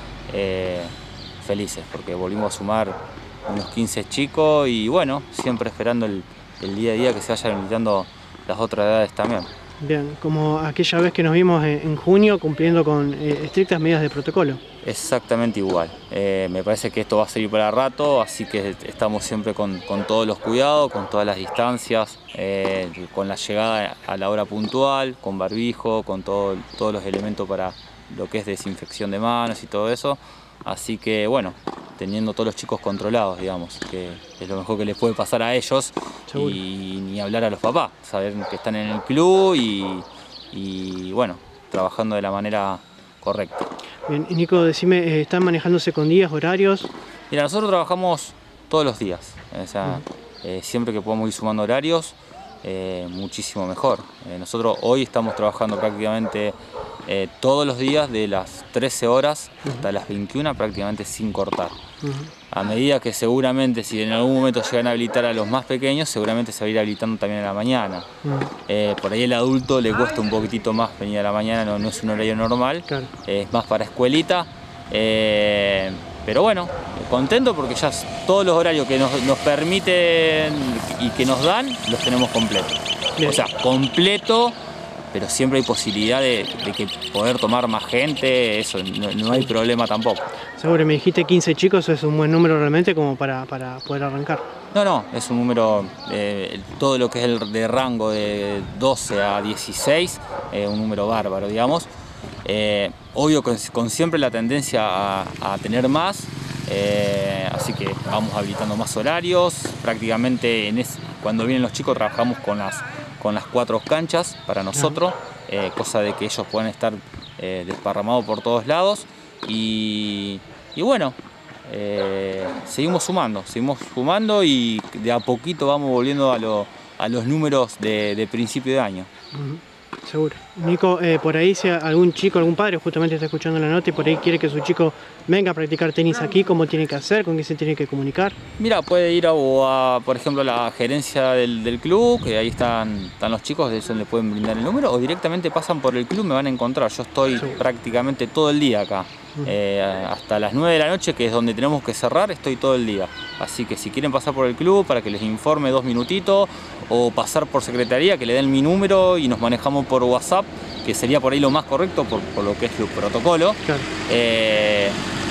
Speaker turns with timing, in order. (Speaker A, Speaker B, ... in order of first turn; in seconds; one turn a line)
Speaker A: 0.3-9.5
Speaker B: 9.8-14.6
Speaker A: 14.8-43.7
Speaker B: 36.3-36.6
Speaker B: 44.1-46.9
Speaker A: 47.3-61.8
Speaker B: 62.0-62.3
Speaker A: 62.5-68.1
Speaker B: 68.2-68.5
Speaker A: 68.7-84.6
Speaker B: 83.2-83.4
Speaker A: 85.1-90.2
Speaker B: 90.6-94.5
Speaker A: 94.7-101.9
Speaker A: 102.5-129.1
Speaker B: 129.3-138.4
Speaker A: 138.6-165.0